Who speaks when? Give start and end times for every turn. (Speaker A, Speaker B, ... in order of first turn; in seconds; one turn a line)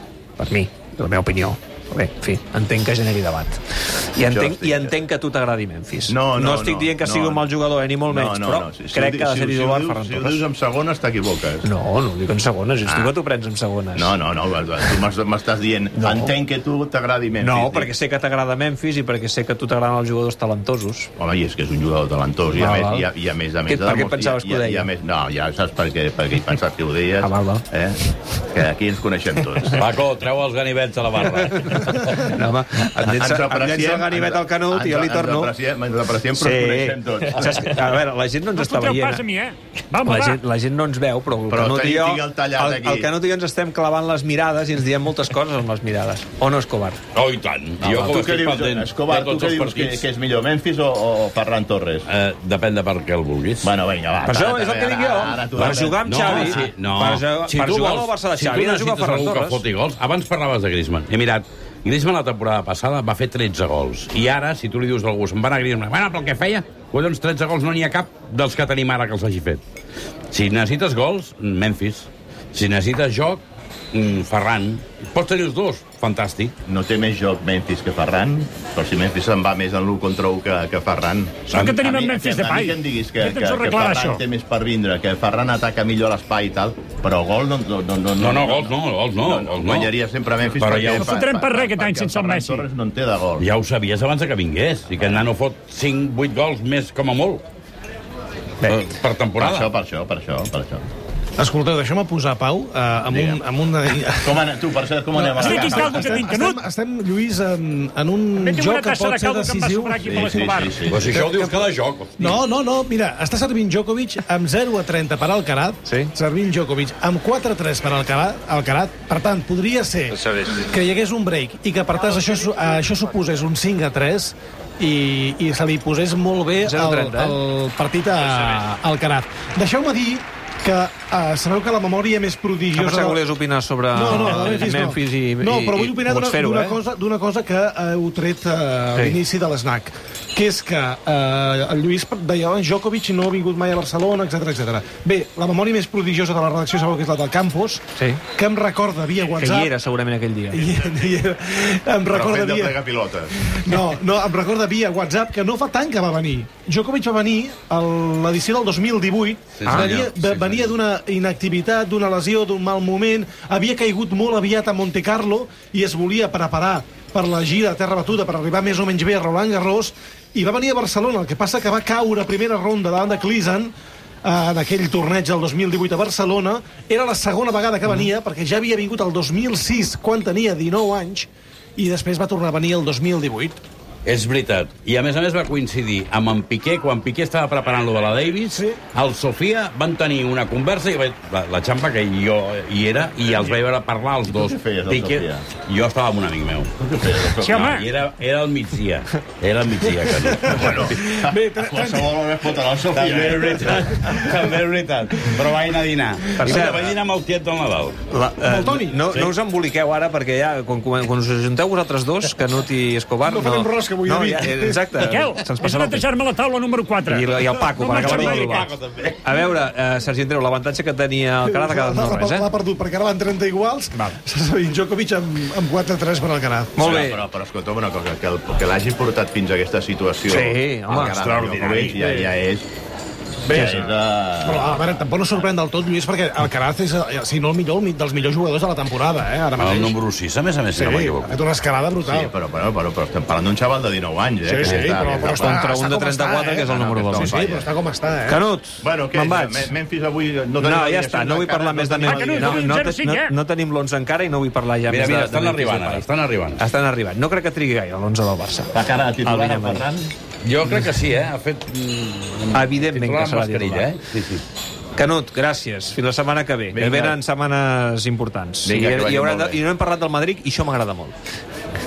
Speaker A: 0.4-10.4
Speaker B: 4.2-4.9
Speaker B: 6.1-7.5
Speaker B: 8.1-11.7
Speaker A: 11.6-14.1
Speaker B: 12.8-13.1
Speaker B: 13.9-17.9
Speaker A: 16.0-16.3
Speaker A: 17.4-21.1
Speaker B: 21.2-29.9
Speaker A: 22.6-23.1
Speaker A: 23.7-24.9
Speaker A: 27.2-27.6
Speaker C: 29.8-32.2
Speaker A: 31.7-35.5
Speaker B: 33.0-38.0
Speaker A: 36.4-39.2
Speaker D: 38.6-40.4
Speaker A: 40.0-47.0
Speaker B: 41.5-43.1
Speaker C: 47.1-50.1
Speaker B: 47.8-52.1
Speaker C: 52.1-53.7
Speaker B: 53.6-56.6
Speaker A: 54.2-59.6
Speaker C: 55.5-69.6
Speaker C: 70.3-76.5
Speaker B: 76.7-93.5
Speaker D: 81.5-84.2
Speaker C: 88.2-89.9
Speaker C: 90.6-91.1
Speaker D: 90.9-92.7
Speaker C: 93.4-97.4
Speaker C: 98.6-99.7
Speaker B: 99.4-100.9
Speaker E: 101.4-104.3
Speaker B: 103.1-103.4
Speaker B: 104.1-106.3
Speaker E: 105.1-110.1
Speaker D: 105.4-106.6
Speaker D: 108.4-110.9
Speaker B: 110.1-111.1
Speaker C: 110.9-112.4
Speaker E: 112.2-133.2
Speaker A: 115.9-116.1
Speaker A: 120.2-120.5
Speaker A: 126.6-127.4
Speaker A: 132.8-136.8
Speaker E: 133.9-147.8
Speaker A: 148.0-148.2
Speaker E: 148.4-149.8
Speaker A: 149.4-150.7
Speaker E: 150.5-152.8
Speaker B: 152.1-153.4
Speaker E: 153.3-183.6
Speaker C: 159.6-160.3
Speaker B: 160.0-160.6
Speaker C: 184.1-200.9
Speaker B: 194.3-195.5
Speaker B: 196.8-197.7
Speaker D: 197.4-197.8
Speaker E: 200.4-202.1
Speaker B: 200.4-203.9
Speaker C: 202.9-208.0
Speaker A: 206.4-206.9
Speaker A: 208.1-216.1
Speaker E: 208.4-209.2
Speaker E: 213.2-215.0
Speaker D: 215.0-218.7
Speaker A: 217.1-222.5
Speaker C: 218.1-218.7
Speaker B: 218.6-219.1
Speaker E: 221.5-226.8
Speaker A: 226.8-227.2
Speaker B: 226.8-232.7
Speaker A: 230.3-232.3
Speaker E: 233.4-233.9
Speaker B: 233.5-234.9
Speaker A: 233.5-233.8
Speaker E: 234.4-240.0
Speaker C: 239.6-241.4
Speaker E: 240.7-242.3
Speaker B: 242.0-245.7
Speaker E: 244.4-248.4
Speaker C: 244.6-245.2
Speaker A: 245.2-247.4
Speaker B: 246.7-247.7
Speaker A: 248.3-249.7
Speaker B: 248.8-252.7
Speaker A: 250.6-259.9
Speaker D: 252.1-253.3
Speaker C: 254.9-256.6
Speaker B: 258.7-260.1
Speaker C: 260.4-264.4
Speaker A: 262.5-263.9
Speaker A: 265.0-271.1
Speaker B: 266.7-267.2
Speaker B: 268.6-269.6